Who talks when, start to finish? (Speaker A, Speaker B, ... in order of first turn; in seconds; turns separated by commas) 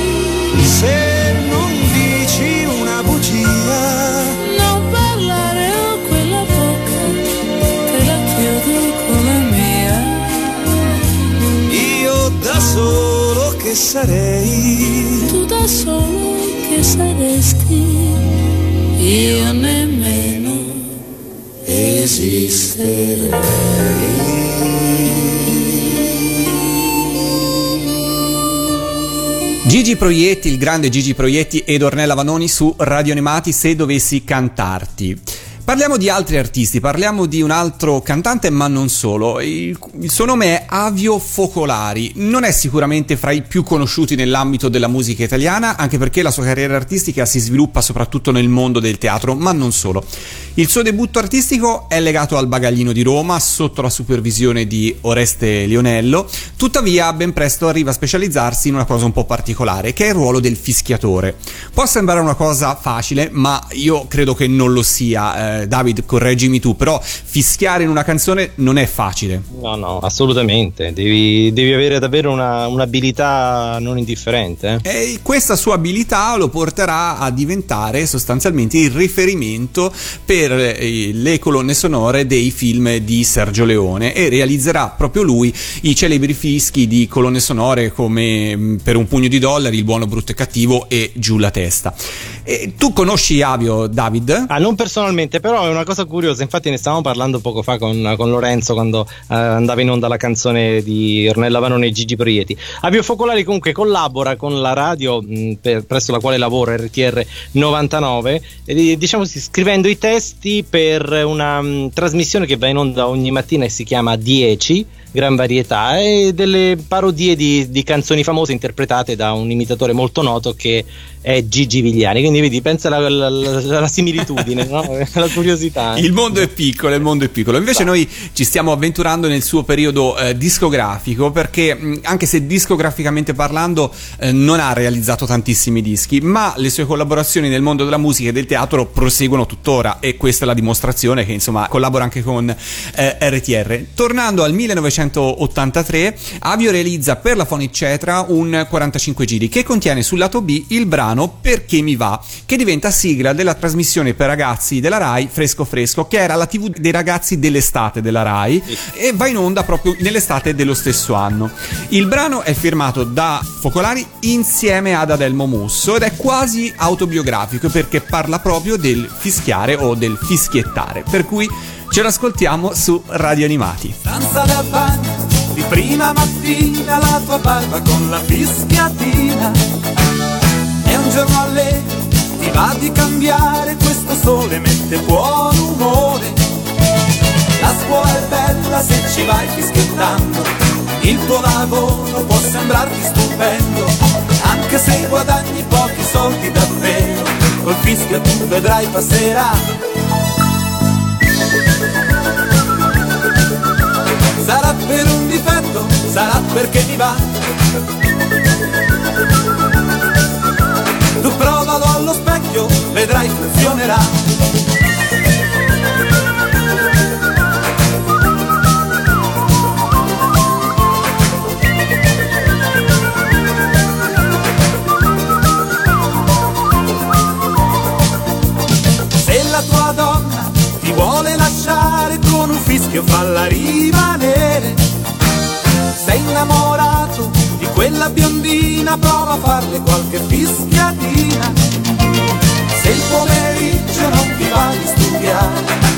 Speaker A: 0.5-4.3, Speaker B: 4.4-7.3, Speaker B: 7.8-10.7, Speaker A: 11.7-15.3, Speaker B: 15.3-18.3, Speaker B: 19.0-20.8, Speaker A: 21.7-23.3, Speaker B: 21.7-23.4, Speaker A: 23.9-25.0, Speaker C: 29.6-69.4, Speaker D: 69.5-74.8, Speaker C: 74.8-94.5, Speaker D: 94.5-126.1, Speaker C: 125.9-174.0, Speaker E: 174.0-179.6, Speaker E: 180.8-186.4, Speaker E: 187.6-199.6, Speaker E: 204.4-207.2, Speaker E: 211.2-214.1, Speaker E: 229.2-234.8, Speaker E: 236.0-241.6, Speaker E: 242.8-245.6